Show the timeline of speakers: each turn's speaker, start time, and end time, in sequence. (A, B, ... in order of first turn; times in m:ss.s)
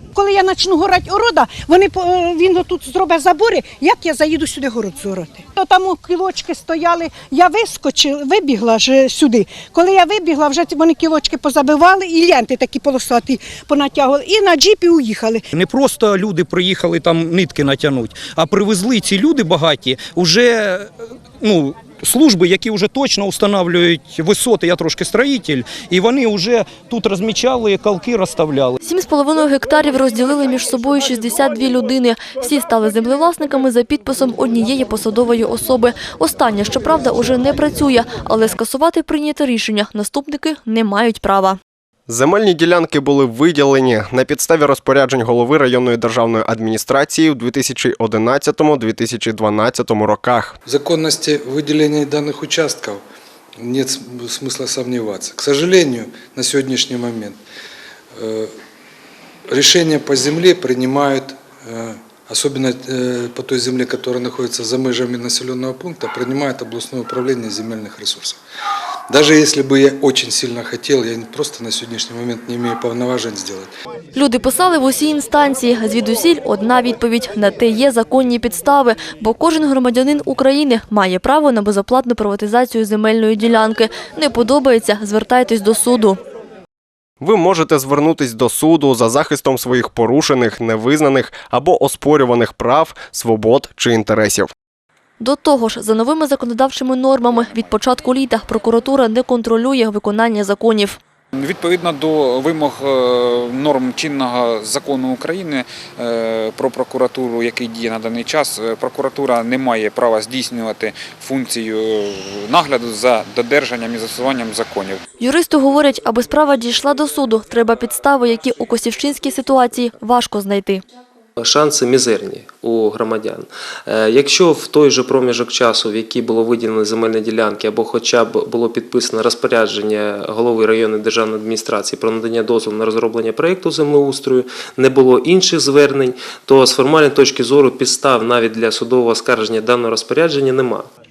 0:00.2-0:15.4 A
0:15.5-0:20.8 B
0:21.5-0:28.8 B
0:28.8-0:41.6 C
0:42.1-0:50.6 D
0:50.7-0:53.0 E
0:53.6-0:57.4 E
0:58.2-0:58.5 E
0:59.5-1:08.4 E
1:09.1-1:13.7 E
1:14.2-1:26.2 C
1:27.2-1:34.5 D
1:35.2-1:41.0 C
1:41.3-1:55.0 F
1:55.2-2:00.8 C
2:01.4-2:20.9 G